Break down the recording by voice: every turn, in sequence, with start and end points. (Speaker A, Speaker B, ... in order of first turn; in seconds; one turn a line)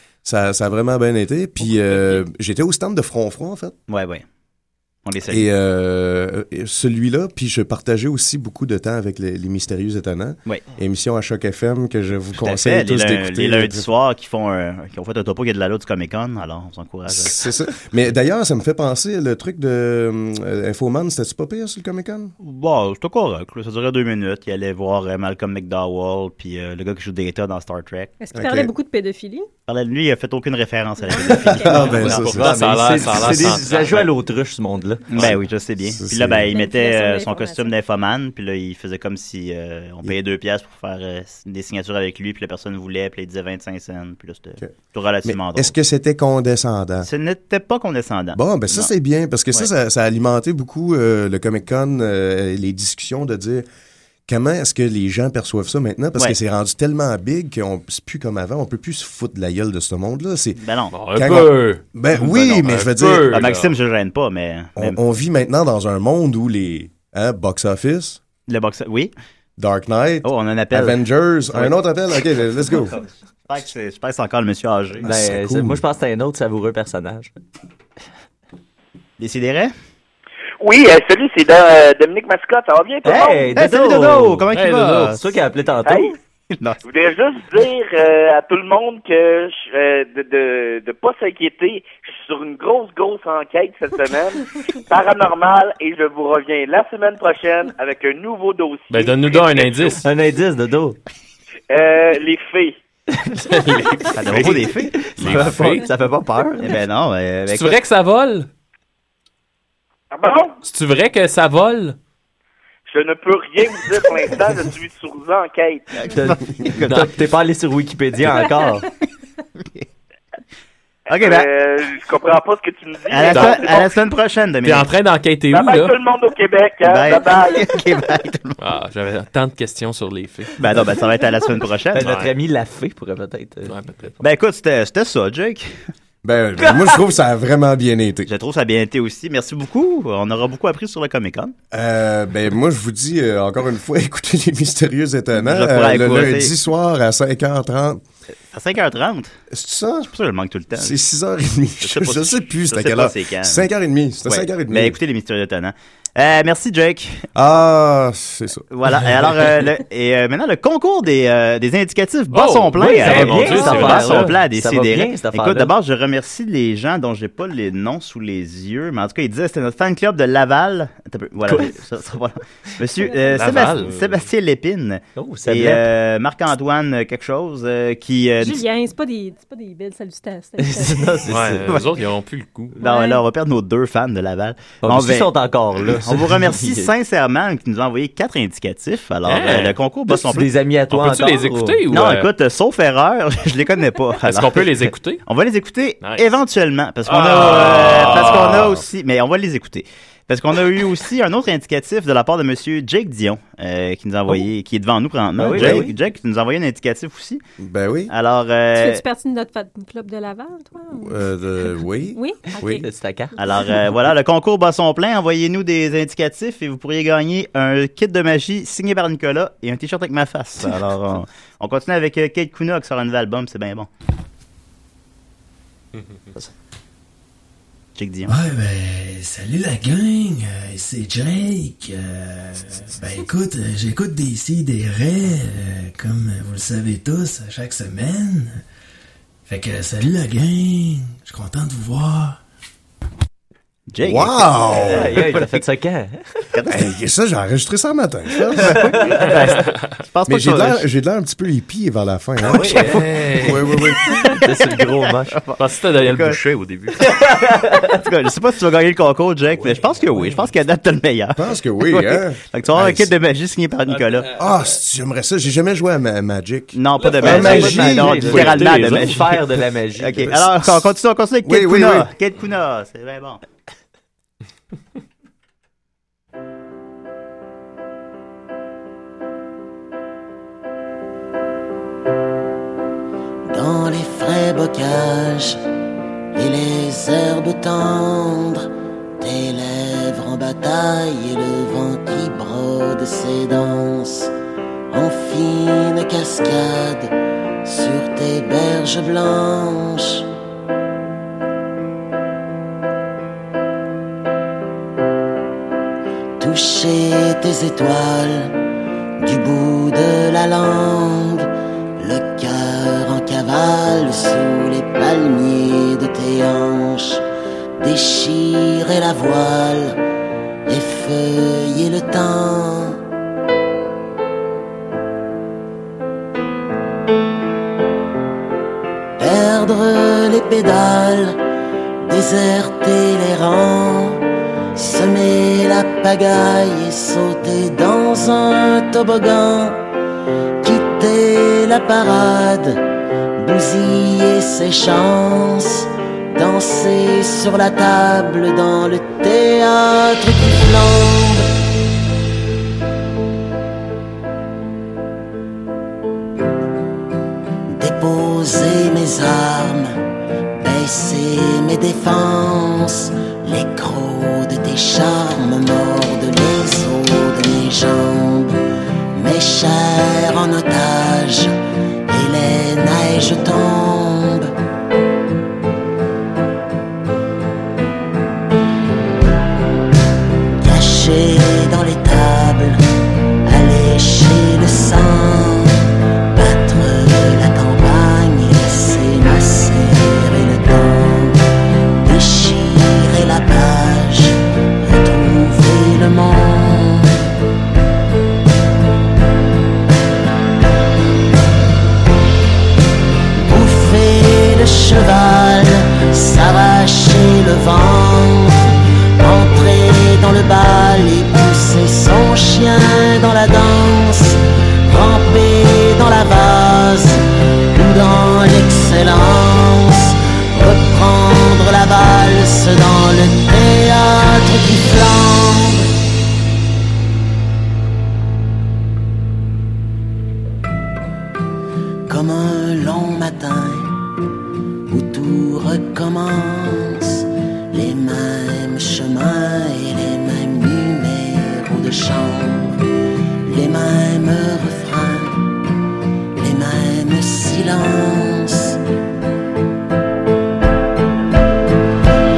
Speaker A: 0.2-3.8
Speaker B: 3.9-4.2
Speaker B: 5.0-5.5
Speaker A: 5.3-13.9
Speaker B: 12.3-17.5
Speaker A: 17.1-22.3
Speaker B: 22.4-28.1
Speaker C: 28.2-29.5
Speaker A: 28.3-28.7
Speaker B: 29.7-32.3
Speaker C: 31.1-32.1
Speaker A: 31.5-32.7
Speaker D: 32.0-34.1
Speaker E: 32.3-35.3
Speaker B: 35.1-45.7
Speaker A: 35.8-36.5
Speaker C: 36.5-37.8
Speaker A: 44.6-47.1
Speaker B: 47.0-48.9
Speaker A: 48.3-53.6
Speaker A: 54.3-60.6
Speaker B: 60.6-60.9
Speaker D: 60.9-63.7
Speaker A: 61.1-63.4
Speaker B: 63.3-65.0
Speaker A: 64.8-68.2
Speaker B: 68.5-69.1
Speaker A: 69.6-73.0
Speaker B: 70.2-71.7
Speaker B: 72.9-75.1
Speaker A: 75.0-75.8
Speaker E: 75.0-77.3
Speaker B: 79.2-79.7
Speaker F: 80.6-83.5
Speaker E: 83.0-84.5
Speaker B: 83.1-85.2
Speaker D: 84.5-85.2
Speaker E: 85.1-86.1
Speaker F: 85.8-86.1
Speaker F: 86.8-100.0
Speaker D: 98.9-100.0
Speaker E: 100.0-101.0
Speaker F: 101.7-102.8
Speaker E: 103.1-103.4
Speaker D: 103.4-105.9
Speaker B: 104.2-105.8
Speaker E: 104.3-106.8
Speaker B: 106.6-107.8
Speaker D: 107.5-108.5
Speaker F: 110.1-110.5
Speaker D: 110.6-112.0
Speaker F: 112.9-115.9
Speaker B: 116.1-117.1
Speaker E: 116.1-118.8
Speaker B: 121.1-121.5
Speaker F: 121.1-123.9
Speaker B: 123.1-124.8
Speaker D: 123.3-123.9
Speaker D: 124.6-126.0
Speaker F: 125.5-127.7
Speaker B: 126.8-128.6
Speaker D: 128.6-130.6
Speaker B: 130.6-132.2
Speaker E: 131.9-133.7
Speaker D: 132.0-132.3
Speaker D: 133.7-134.1
Speaker B: 134.2-135.8
Speaker A: 136.2-138.3
Speaker B: 138.3-141.5
Speaker A: 141.7-148.0
Speaker B: 145.3-146.5
Speaker B: 148.5-149.4
Speaker A: 149.5-150.1
Speaker B: 150.0-151.0
Speaker A: 150.7-155.0
Speaker B: 151.8-153.7
Speaker B: 154.2-157.3
Speaker A: 157.3-158.7
Speaker B: 158.7-178.7
Speaker D: 162.3-164.3
Speaker E: 162.7-165.7
Speaker E: 171.4-171.8
Speaker D: 173.2-174.2
Speaker E: 175.2-175.9
Speaker C: 178.4-181.3
Speaker E: 180.6-181.8
Speaker D: 181.2-182.8
Speaker B: 181.7-182.0
Speaker C: 182.8-183.2
Speaker B: 182.8-190.5
Speaker E: 184.8-186.9
Speaker D: 189.2-189.8
Speaker E: 189.5-191.8
Speaker D: 190.9-192.3
Speaker B: 191.9-207.4
Speaker D: 194.2-195.2
Speaker D: 196.0-196.4
Speaker D: 197.1-198.8
Speaker A: 198.3-198.8
Speaker E: 205.4-205.9
Speaker A: 205.5-205.9
Speaker A: 207.6-208.1
Speaker B: 208.1-209.0
Speaker C: 208.7-212.9
Speaker A: 211.0-212.8
Speaker E: 212.6-213.3
Speaker B: 213.4-223.9
Speaker B: 227.9-228.3
Speaker G: 228.2-238.6
Speaker G: 239.5-242.4
Speaker B: 243.9-245.6
Speaker A: 244.0-245.2
Speaker E: 244.7-246.4
Speaker B: 246.5-246.8
Speaker A: 246.7-248.9
Speaker B: 248.6-250.8
Speaker E: 248.6-249.4
Speaker A: 250.3-254.3
Speaker E: 252.4-253.2
Speaker B: 252.6-252.9
Speaker D: 252.8-253.7
Speaker B: 254.1-256.4
Speaker E: 254.2-255.4
Speaker D: 255.6-257.0
Speaker B: 256.9-264.3
Speaker E: 257.0-258.0
Speaker A: 261.4-263.1
Speaker D: 264.0-264.4
Speaker A: 264.4-268.9
Speaker B: 266.7-269.4
Speaker E: 267.1-270.4
Speaker D: 268.9-269.1
Speaker B: 270.0-273.4
Speaker A: 271.4-272.1
Speaker H: 283.5-285.6
Speaker H: 286.3-288.7
Speaker H: 289.2-294.3
Speaker H: 294.9-300.2
Speaker H: 306.4-308.6
Speaker H: 309.2-317.2
Speaker H: 317.8-320.0
Speaker H: 320.7-323.0
Speaker H: 329.2-331.4
Speaker H: 332.1-339.9
Speaker H: 340.6-342.8
Speaker H: 343.4-351.5
Speaker H: 357.7-360.0
Speaker H: 360.6-368.6
Speaker H: 369.1-371.5
Speaker H: 372.1-374.5
Speaker H: 380.6-382.8
Speaker H: 383.4-385.8
Speaker H: 386.3-391.4
Speaker H: 392.0-397.2
Speaker H: 403.3-425.9
Speaker H: 432.1-434.0
Speaker H: 434.9-442.8
Speaker H: 443.4-445.5
Speaker H: 446.4-448.8